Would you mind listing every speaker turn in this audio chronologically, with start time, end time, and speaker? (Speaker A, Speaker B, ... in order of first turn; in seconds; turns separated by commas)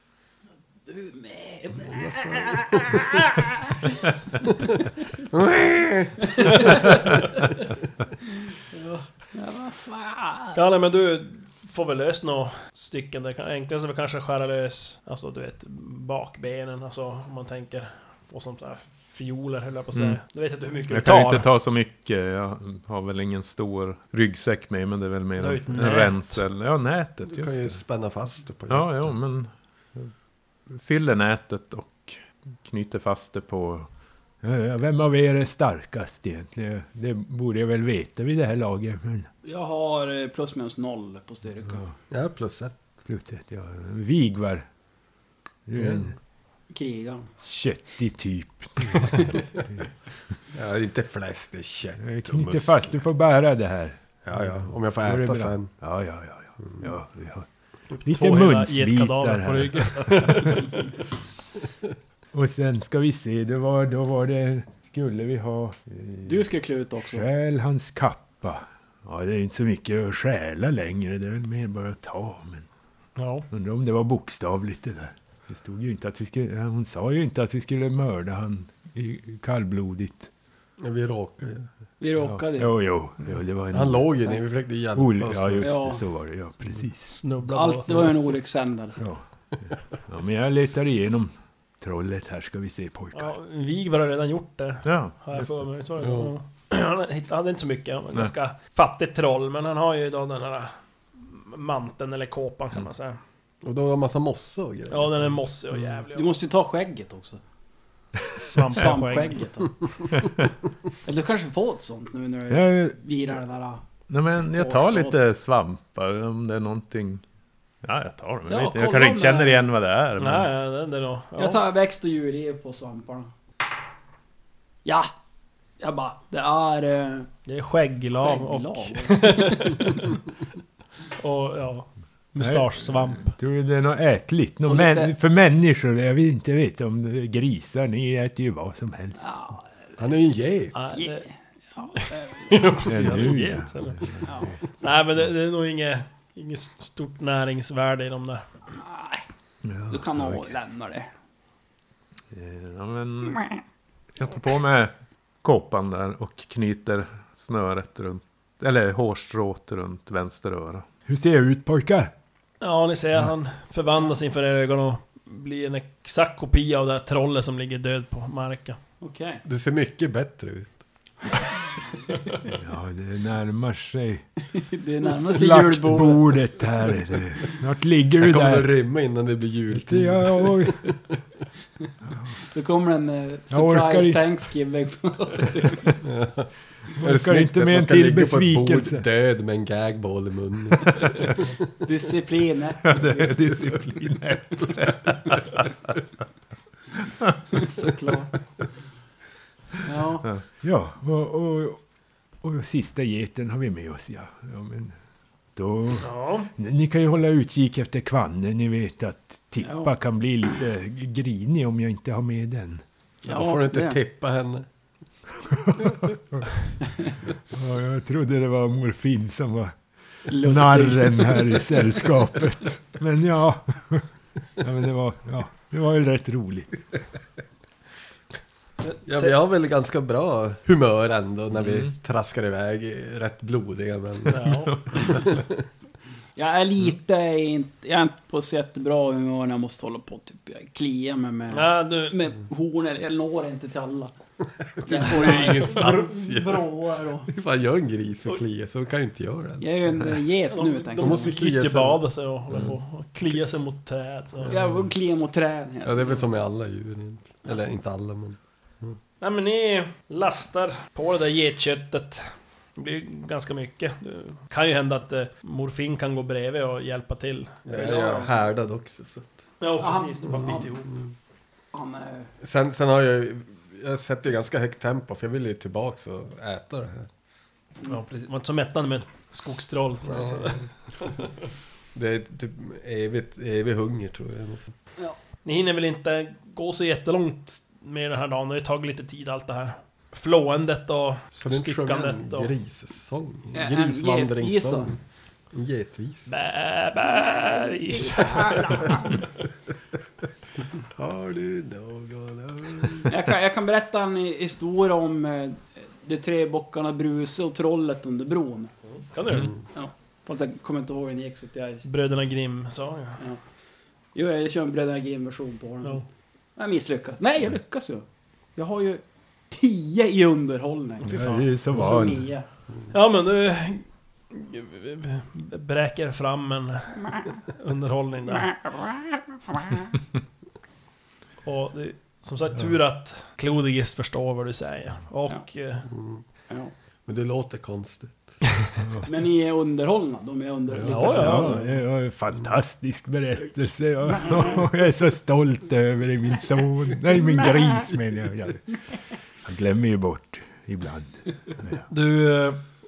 Speaker A: 0.9-4.5, Speaker B: 1.8-3.2, Speaker B: 5.3-6.2, Speaker A: 6.3-7.2, Speaker A: 8.7-10.6, Speaker C: 10.5-21.5, Speaker D: 20.9-27.8, Speaker C: 25.4-26.4, Speaker B: 27.3-29.0, Speaker D: 28.7-30.1, Speaker D: 30.7-33.9, Speaker E: 34.4-39.3, Speaker A: 39.4-41.8, Speaker B: 42.1-42.8, Speaker E: 43.1-44.7, Speaker E: 45.7-46.1, Speaker B: 45.8-46.0, Speaker A: 46.7-47.3, Speaker E: 47.4-49.5, Speaker B: 50.5-52.9, Speaker E: 52.0-57.5, Speaker B: 54.2-55.7, Speaker C: 57.9-60.9, Speaker E: 58.0-60.7, Speaker E: 62.3-66.5, Speaker A: 66.2-67.3, Speaker E: 67.0-72.7, Speaker C: 73.2-73.5, Speaker E: 73.5-80.3, Speaker B: 80.8-81.7, Speaker A: 82.0-82.8, Speaker E: 82.2-84.1, Speaker B: 83.7-85.8, Speaker E: 85.0-87.2, Speaker A: 85.6-86.0, Speaker C: 87.1-88.1, Speaker A: 87.4-89.0, Speaker E: 89.0-89.2, Speaker E: 90.1-93.3, Speaker C: 93.1-103.2, Speaker D: 94.8-95.4, Speaker B: 96.0-96.3, Speaker B: 103.6-105.3, Speaker C: 104.9-106.4, Speaker A: 106.2-107.4, Speaker C: 108.4-109.4, Speaker A: 108.7-110.3, Speaker A: 111.0-113.8, Speaker E: 112.5-113.0, Speaker D: 114.1-117.2, Speaker A: 114.5-115.2, Speaker D: 117.8-120.5, Speaker A: 118.5-119.7, Speaker C: 120.2-121.6, Speaker A: 121.4-123.3, Speaker A: 125.8-127.3, Speaker C: 127.5-130.2, Speaker A: 128.2-129.9, Speaker C: 131.2-133.4, Speaker E: 132.4-139.3, Speaker A: 134.7-135.2, Speaker A: 139.2-139.6, Speaker B: 140.0-140.8, Speaker C: 140.7-141.3, Speaker A: 140.9-141.3, Speaker A: 141.8-142.6, Speaker C: 141.9-144.0, Speaker E: 142.9-144.5, Speaker A: 144.2-144.6, Speaker C: 144.8-148.4, Speaker A: 148.7-149.2, Speaker E: 149.6-150.5, Speaker A: 149.9-151.1, Speaker D: 152.3-153.4, Speaker D: 154.2-160.9, Speaker E: 161.1-162.1, Speaker C: 162.6-168.8, Speaker A: 169.0-169.4, Speaker B: 169.4-170.8, Speaker E: 172.5-174.3, Speaker A: 174.6-176.8, Speaker E: 175.1-178.7, Speaker B: 178.2-180.9, Speaker E: 179.7-180.8, Speaker E: 182.0-182.4, Speaker A: 182.5-186.0, Speaker E: 183.5-184.3, Speaker B: 186.0-191.3, Speaker E: 186.9-189.0, Speaker A: 191.8-193.5, Speaker D: 192.8-195.7, Speaker E: 193.5-193.9, Speaker A: 197.5-198.3, Speaker A: 199.8-200.3, Speaker E: 200.6-201.8, Speaker E: 202.4-204.9, Speaker E: 205.6-212.8, Speaker C: 206.0-206.5, Speaker A: 209.6-209.9, Speaker A: 213.2-214.0, Speaker B: 213.3-214.7, Speaker E: 215.5-216.7, Speaker E: 217.5-219.8, Speaker E: 220.3-224.1, Speaker A: 220.3-221.7, Speaker E: 224.6-226.8, Speaker C: 228.8-229.3, Speaker B: 229.1-235.5, Speaker D: 231.7-231.9, Speaker C: 234.3-235.2, Speaker A: 236.4-244.1, Speaker C: 241.5-242.2, Speaker B: 244.8-250.2, Speaker A: 244.8-247.3, Speaker C: 245.3-245.8, Speaker A: 249.6-251.3, Speaker C: 250.5-254.6, Speaker B: 251.0-252.7, Speaker B: 254.4-254.9, Speaker A: 254.5-256.4, Speaker B: 255.8-258.9, Speaker C: 259.2-268.3, Speaker B: 267.6-269.4, Speaker A: 267.7-268.2, Speaker C: 269.6-270.9, Speaker A: 269.8-270.9, Speaker A: 271.7-272.3, Speaker B: 272.4-277.1, Speaker C: 277.9-281.3, Speaker B: 280.1-280.6, Speaker B: 281.9-284.7, Speaker C: 285.4-292.5, Speaker B: 291.4-295.0, Speaker A: 293.6-294.9, Speaker B: 295.5-296.3, Speaker C: 296.3-299.2, Speaker A: 297.9-299.2, Speaker B: 300.8-303.2, Speaker A: 303.1-308.7, Speaker C: 309.1-309.5, Speaker A: 309.7-311.9, Speaker C: 311.8-313.2, Speaker A: 314.1-316.0, Speaker A: 316.6-318.1, Speaker A: 318.6-322.5, Speaker E: 321.0-322.3, Speaker C: 322.9-327.0, Speaker A: 327.0-327.4, Speaker C: 327.5-328.5, Speaker A: 328.3-329.8, Speaker C: 331.4-335.9, Speaker B: 335.9-336.2, Speaker B: 337.1-338.4, Speaker E: 338.8-339.1, Speaker A: 339.0-341.8, Speaker B: 340.8-341.1, Speaker C: 340.8-341.5, Speaker E: 341.1-348.7, Speaker E: 349.4-351.9, Speaker C: 351.9-352.6